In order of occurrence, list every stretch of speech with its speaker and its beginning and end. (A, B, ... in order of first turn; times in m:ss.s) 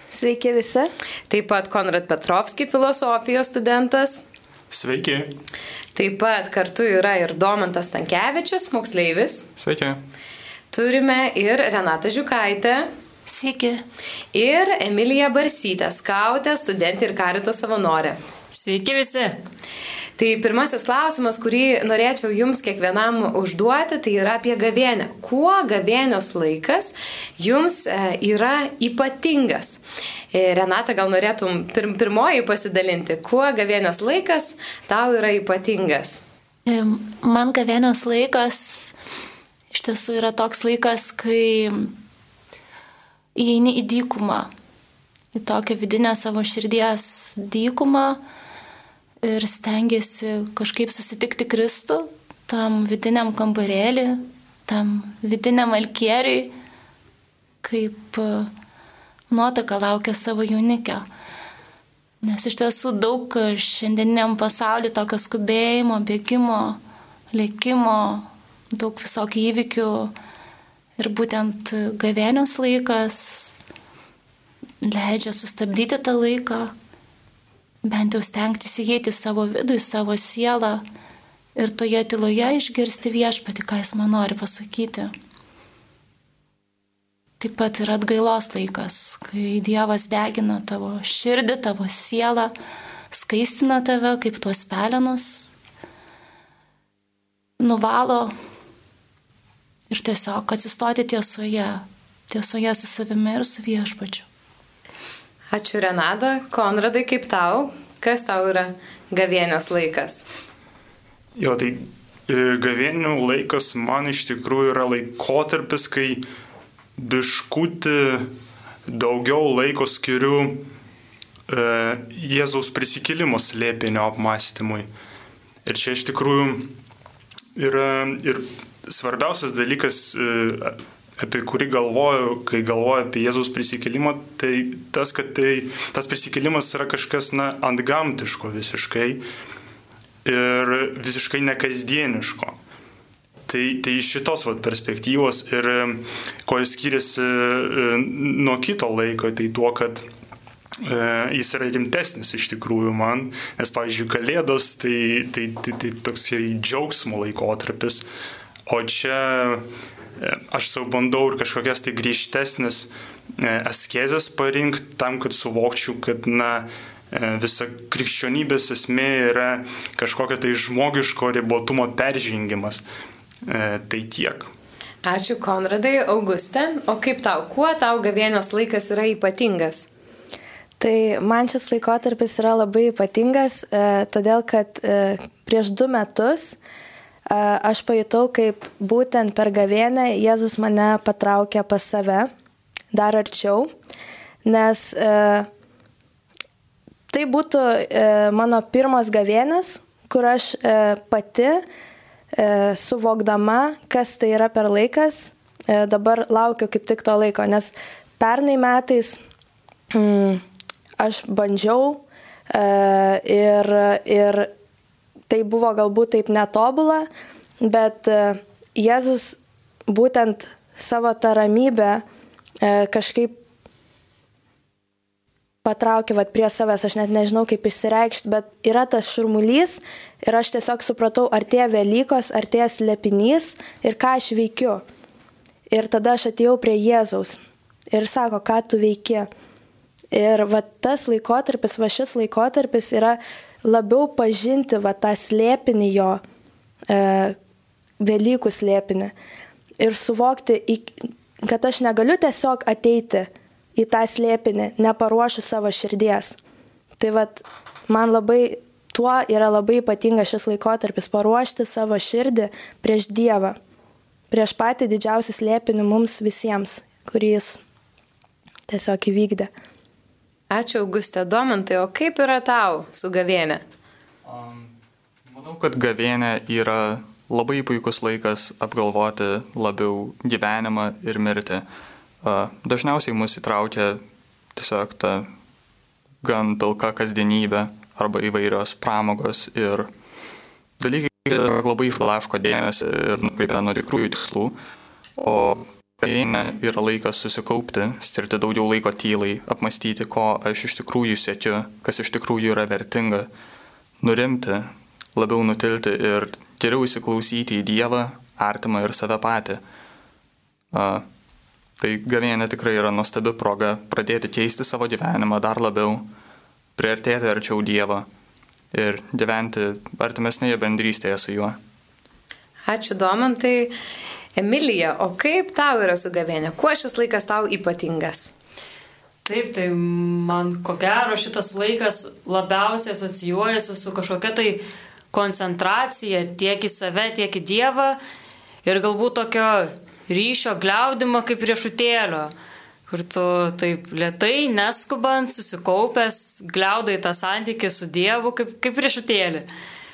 0:00.1-0:00.9 A
0:01.3-0:04.2 B
0:04.7-0:05.3 C
0:05.9-0:09.5 B
0:09.6-0:10.0 D
0:10.7-0:12.9 B
0:13.3-0:13.8 E
0:14.3-0:18.2 B
0:18.5-0:19.4 F
0:20.2-0:29.8 B
0:30.3-0:36.2 B
0:36.6-0:38.9 E
0:39.7-0:41.9 E
0:43.3-0:44.5 E
0:45.3-0:48.2 E
0:49.2-0:56.5 E
0:57.6-0:58.5 E
0:59.3-1:01.0 E
1:02.2-1:06.8 E
1:07.3-1:10.1 E
1:11.0-1:13.6 E
1:14.8-1:16.7 E
1:17.8-1:20.8 E
1:21.6-1:25.1 E
1:27.4-1:32.5 E
1:33.1-1:35.5 E
1:37.6-1:38.3 E
1:39.9-1:44.3 E
1:45.5-1:50.2 B
1:51.4-1:56.2 C
1:57.0-1:58.3 C
1:58.9-2:00.6 C
2:01.5-2:04.9 C
2:05.6-2:06.7 C
2:07.6-2:19.2 C
2:20.2-2:22.6 C
2:23.5-2:30.0 C
2:30.8-2:38.0 C
2:38.7-2:39.6 C
2:40.2-2:52.8 C
2:53.4-2:54.5 C
2:55.0-2:59.9 B
3:00.8-3:06.6 A
3:07.3-3:12.3 A
3:12.9-3:13.7 A
3:14.4-3:15.5 A
3:17.1-3:21.6 A
3:22.3-3:29.2 A
3:29.9-3:30.4 A
3:31.0-3:34.5 A
3:35.3-3:37.1 A
3:37.6-3:42.0 A
3:42.6-3:43.4 A
3:45.6-3:54.8 A
3:55.7-3:57.4 A
3:57.9-3:59.3 A
4:00.1-4:06.2 A
4:06.9-4:07.4 A
4:08.0-4:09.1 A
4:09.8-4:16.4 A
4:17.0-4:23.6 A
4:24.3-4:27.6 A
4:28.7-4:29.5 A
4:30.5-4:33.6 B
4:34.2-4:34.7 D
4:35.3-4:41.6 D
4:42.2-4:44.0 D
4:44.6-4:45.3 D
4:46.2-4:49.9 D
4:50.8-4:54.6 D
4:55.2-5:03.3 D
5:04.0-5:09.6 D
5:10.7-5:11.0 D
5:11.8-5:16.1 D
5:16.8-5:18.1 D
5:18.7-5:21.6 D
5:22.6-5:23.7 B
5:24.4-5:28.3 B
5:29.2-5:38.0 F
5:38.6-5:42.3 F
5:42.9-5:49.5 F